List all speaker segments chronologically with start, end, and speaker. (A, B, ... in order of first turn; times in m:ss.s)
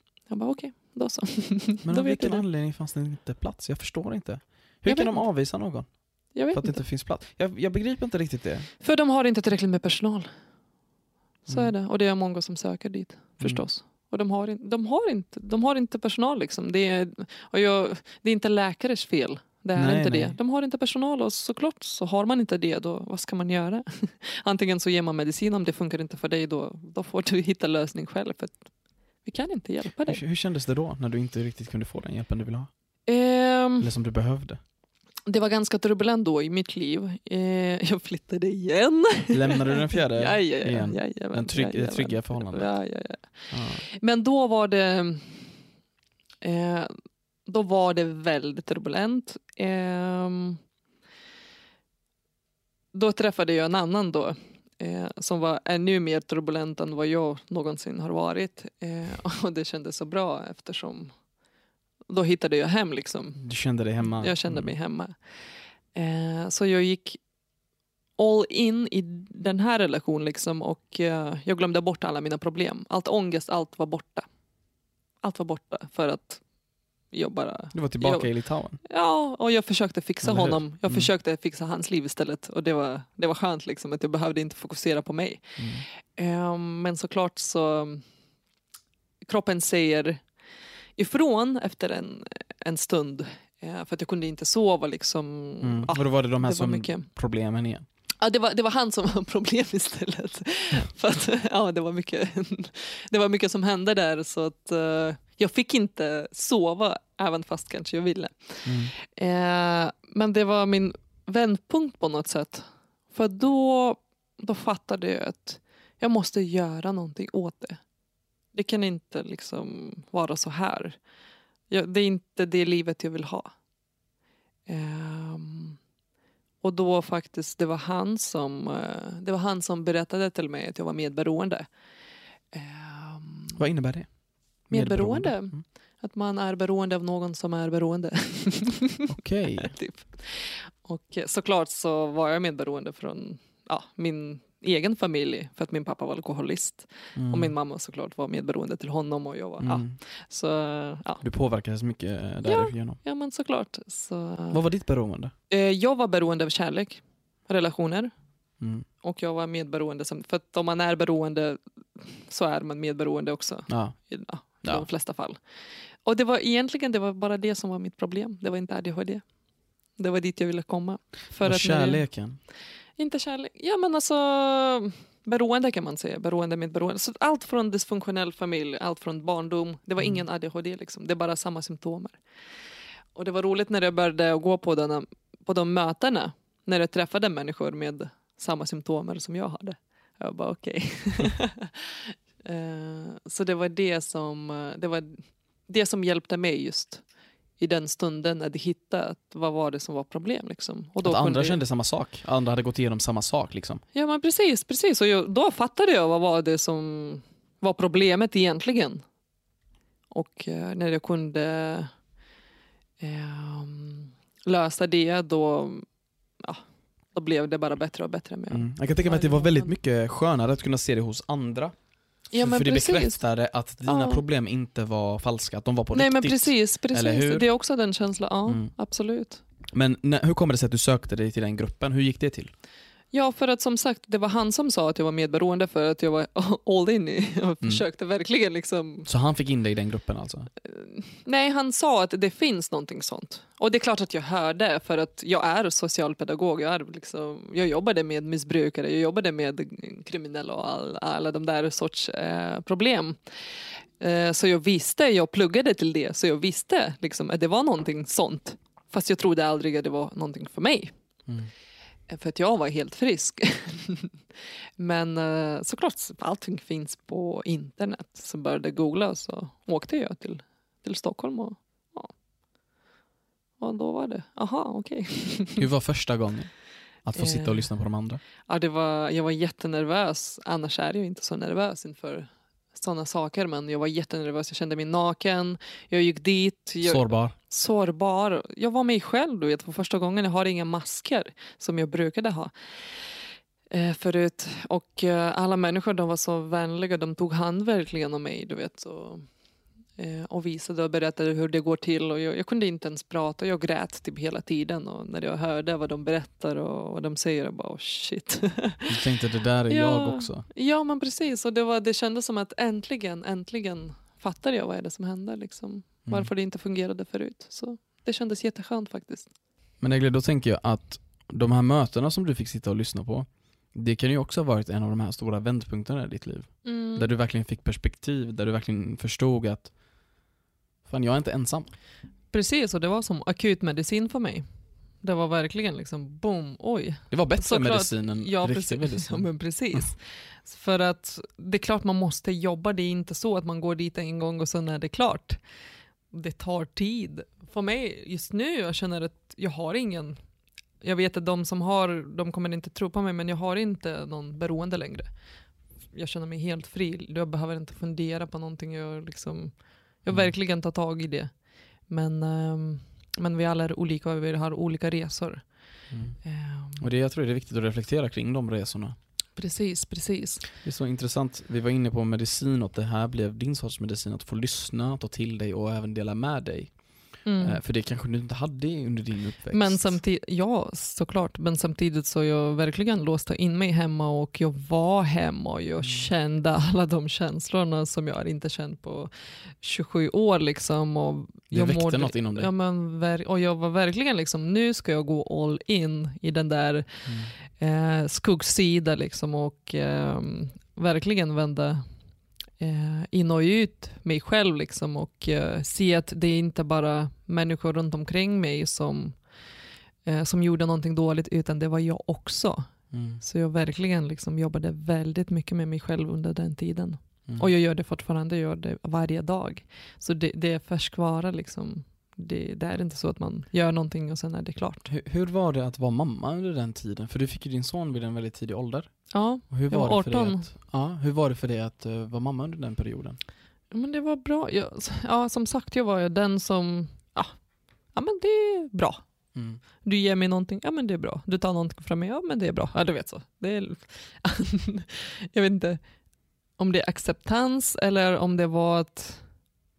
0:00.3-0:02.4 A
0:01.8-0:08.7 B
0:04.9-0:05.2 A
0:06.3-0:06.8 A
0:08.8-0:10.3 A
0:11.5-0:28.6 A
0:19.8-0:20.4 B
0:29.2-0:30.2 A
0:30.1-0:32.7 B
0:33.1-0:33.9 A
0:33.8-0:34.6 B
0:35.3-0:45.5 A
0:39.3-0:42.7 B
0:43.5-0:43.8 B
0:46.4-0:46.9 A
0:47.5-0:50.6 A
0:52.9-1:01.1 A
1:02.1-1:03.4 A
1:03.4-1:04.7 B
1:04.0-1:05.2 A
1:06.0-1:07.2 A
1:08.2-1:14.3 A
1:15.2-1:16.4 A
1:17.1-1:18.3 A
1:17.7-1:18.8 B
1:18.8-1:25.6 A
1:20.2-1:21.1 B
1:25.6-1:25.8 B
1:26.2-1:28.0 A
1:29.2-1:30.2 A
1:31.0-1:37.1 A
1:35.6-1:37.9 B
1:38.2-1:57.8 A
1:48.6-1:48.9 B
1:58.5-2:01.0 A
2:01.7-2:03.5 A
2:04.7-2:05.8 A
2:06.6-2:11.7 A
2:12.5-2:13.6 A
2:13.6-2:14.2 B
2:14.7-2:15.6 B
2:14.7-2:31.2 A
2:19.1-2:19.7 B
2:27.2-2:27.5 B
2:29.6-2:30.0 B
2:31.2-2:33.0 B
2:32.4-2:34.6 A
2:34.5-2:35.3 B
2:35.5-2:38.1 A
2:38.6-2:38.9 B
2:39.0-2:45.4 A
2:43.7-2:44.0 B
2:46.0-2:49.2 A
2:50.0-2:52.0 A
2:51.4-2:52.4 B
2:53.0-3:02.2 A
3:03.2-3:17.0 A
3:17.6-3:21.6 A
3:21.0-3:23.8 B
3:23.9-3:29.0 A
3:30.1-3:31.9 A
3:33.0-3:35.8 A
3:37.1-3:39.7 A
3:38.5-3:41.8 B
3:42.3-3:43.2 A
3:42.4-3:47.5 B
3:43.8-3:44.2 A
3:45.9-3:49.4 A
3:48.5-3:48.7 B
3:49.7-3:52.5 B
3:53.1-3:59.1 A
3:59.1-4:00.5 B
4:00.6-4:13.2 A
4:14.0-4:20.9 A
4:22.1-4:24.2 A
4:24.8-4:32.1 A
4:33.6-4:35.6 A
4:35.6-4:38.2 B
4:37.2-4:37.7 A
4:38.4-4:59.3 A
4:46.8-4:47.4 B
5:00.0-5:09.0 A
5:08.9-5:10.4 B
5:09.7-5:19.3 A
5:19.8-5:29.7 B
5:26.6-5:27.1 A
5:30.8-5:31.7 B
5:32.3-5:34.4 A
5:35.0-5:45.4 A
5:37.1-5:39.8 B
5:46.1-5:50.2 A
5:50.8-5:55.1 A
5:55.9-6:05.6 A
6:00.1-6:00.3 B
6:05.9-6:06.2 B
6:06.2-6:06.8 A
6:06.8-6:09.0 B
6:09.4-6:10.4 A
6:10.6-6:20.0 B
6:17.2-6:17.6 A
6:19.5-6:41.8 A
6:31.5-6:32.5 B
6:37.1-6:37.3 B
6:42.6-6:49.2 A
6:50.0-6:52.7 A
6:52.9-6:53.2 B
6:53.2-7:04.9 A
7:04.9-7:13.2 B
7:09.1-7:10.5 A
7:13.7-7:17.4 A
7:17.9-7:19.0 A
7:19.3-7:19.6 B
7:19.8-7:25.8 A
7:26.6-7:29.3 A